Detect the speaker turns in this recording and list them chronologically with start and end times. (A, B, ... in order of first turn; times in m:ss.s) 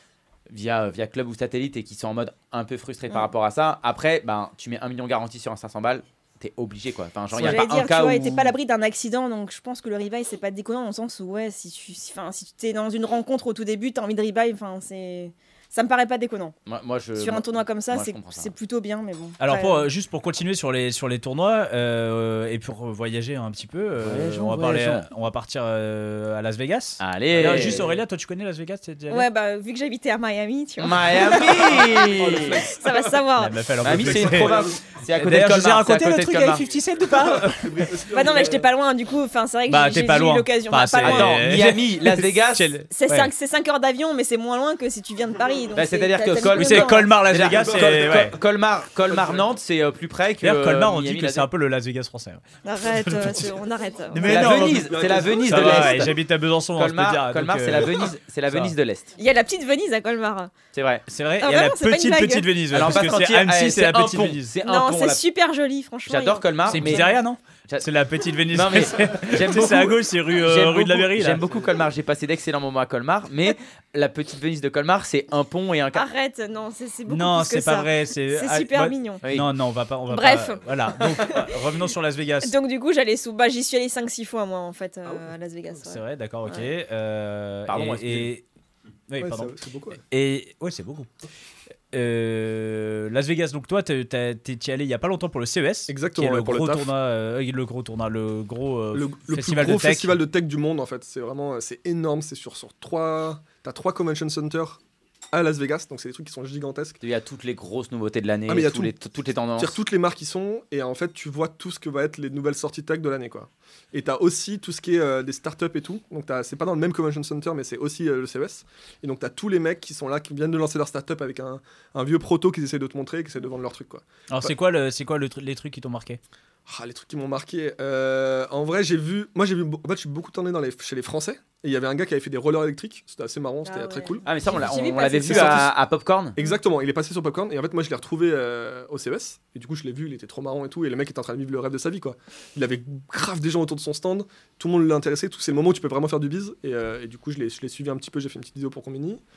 0:00.5-0:08.5 A
0:07.4-0:16.6 B
0:16.7-0:18.5 A
0:17.2-0:19.9 B
0:19.4-0:29.2 C
0:24.0-0:25.1 A
0:27.0-0:27.9 A
0:27.5-0:27.8 D
0:29.1-0:33.6 B
0:30.8-0:32.6 A
0:31.6-0:33.2 D
0:33.4-0:34.6 C
0:33.8-0:36.6 A
0:33.8-0:34.8 D
0:35.1-0:37.9 C
0:37.1-0:38.7 D
0:38.1-0:41.5 B
0:39.7-0:43.3 C
0:41.0-0:42.7 A
0:42.9-0:47.1 B
0:45.7-0:51.5 A
0:46.5-0:48.4 C
0:47.3-0:48.4 D
0:49.0-0:49.5 D
0:50.4-0:52.4 C
0:52.6-0:54.4 B
0:53.0-0:53.4 C
0:54.1-0:54.9 C
0:54.2-0:56.1 D
0:54.2-0:56.1 A
0:55.4-0:57.9 C
0:56.8-0:59.1 A
0:58.5-0:58.7 C
0:59.2-1:00.5 B
1:00.7-1:01.0 A
1:01.1-1:04.5 C
1:01.4-1:02.8 B
1:02.7-1:05.2 A
1:04.6-1:07.2 B
1:06.1-1:07.0 A
1:06.6-1:11.4 C
1:08.5-1:16.1 A
1:15.9-1:19.2 B
1:17.1-1:22.5 C
1:20.1-1:21.6 B
1:22.4-1:26.7 B
1:25.0-1:25.3 D
1:25.8-1:28.4 C
1:27.7-1:28.3 A
1:29.1-1:31.1 C
1:29.2-1:30.0 D
1:31.9-1:40.2 C
1:35.9-1:36.9 D
1:38.9-1:44.8 D
1:45.3-1:47.0 D
1:47.0-1:49.8 A
1:48.5-1:48.9 D
1:49.6-2:04.5 D
2:04.3-2:06.2 C
2:06.7-2:14.2 D
2:13.6-2:15.7 B
2:14.2-2:16.4 A
2:15.3-2:15.7 D
2:16.4-2:29.2 D